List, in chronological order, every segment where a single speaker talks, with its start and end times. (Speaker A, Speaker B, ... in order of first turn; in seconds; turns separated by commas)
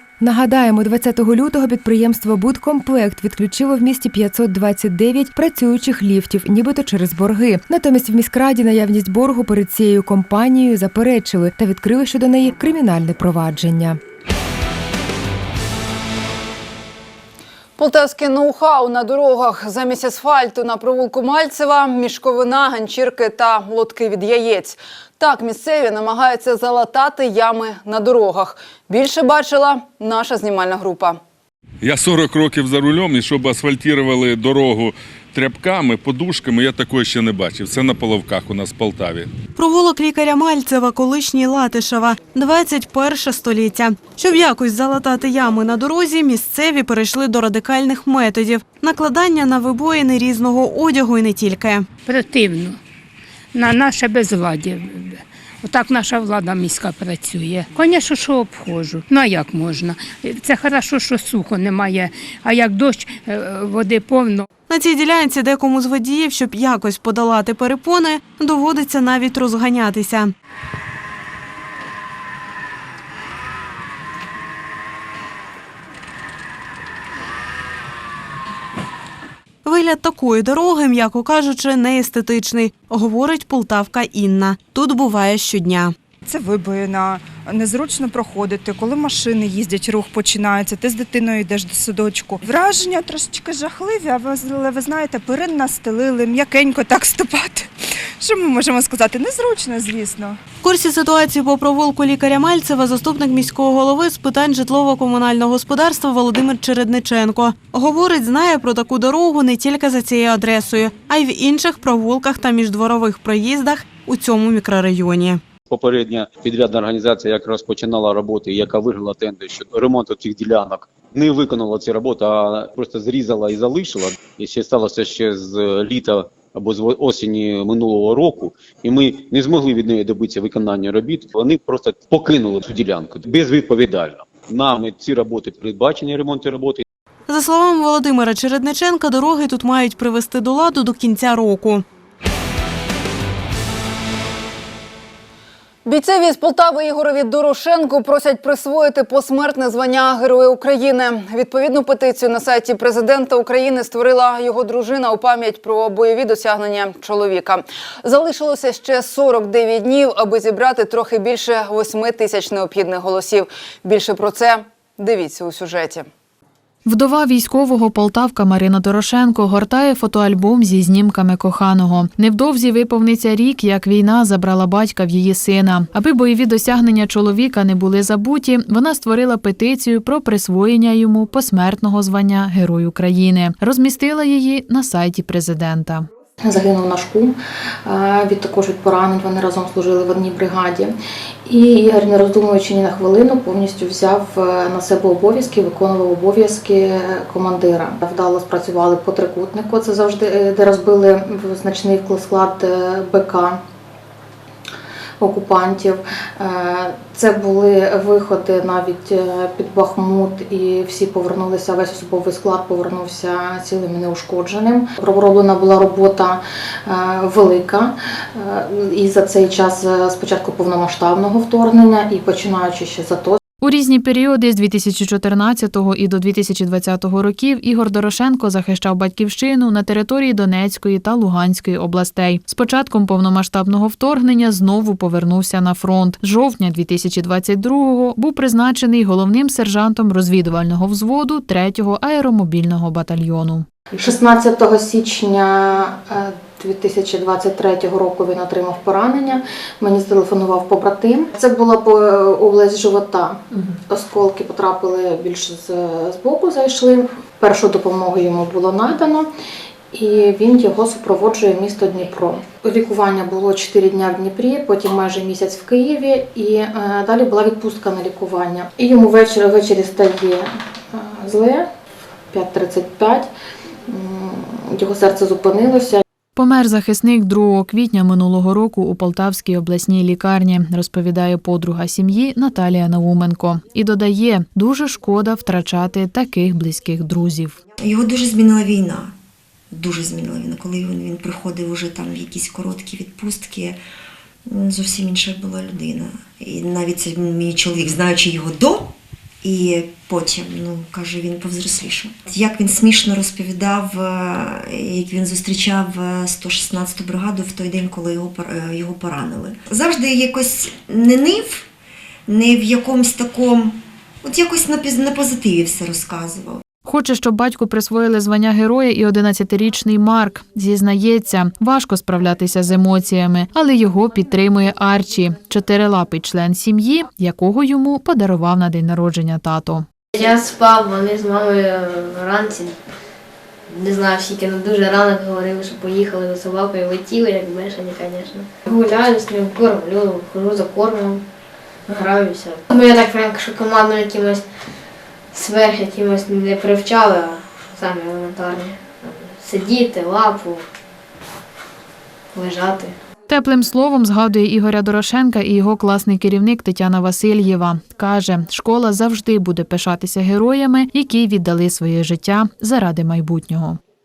Speaker A: 0.2-14.0, Speaker B: 17.8-31.2, Speaker C: 31.8-39.3, Speaker D: 39.5-51.9, Speaker E: 52.0-52.8, Speaker E: 53.5-64.4, Speaker D: 64.7-70.3, Speaker D: 79.6-85.9, Speaker F: 86.3-92.3, Speaker F: 92.8-93.6, Speaker F: 96.4-97.6, Speaker F: 98.2-100.2, Speaker D: 100.6-115.4, Speaker G: 115.7-136.8, Speaker D: 137.3-141.8, Speaker B: 145.8-166.1, Speaker H: 166.8-186.1, Speaker I: 186.4-190.9, Speaker I: 191.4-203.6, Speaker I: 205.2-223.4, Speaker H: 223.6-243.7, Speaker I: 244.0-259.3, Speaker I: 259.9-271.7, Speaker I: 272.3-273.3, Speaker I: 273.9-276.0, Speaker H: 276.4-287.5, Speaker J: 287.8-289.1, Speaker J: 289.7-293.8, Speaker J: 294.5-298.9, Speaker J: 299.4-311.6, Speaker J: 312.3-316.6, Speaker H: 316.9-329.9, Speaker K: 330.1-332.7, Speaker K: 333.7-341.2, Speaker K: 341.9-344.4, Speaker K: 345.3-350.6, Speaker K: 352.3-352.9, Speaker H: 353.3-363.8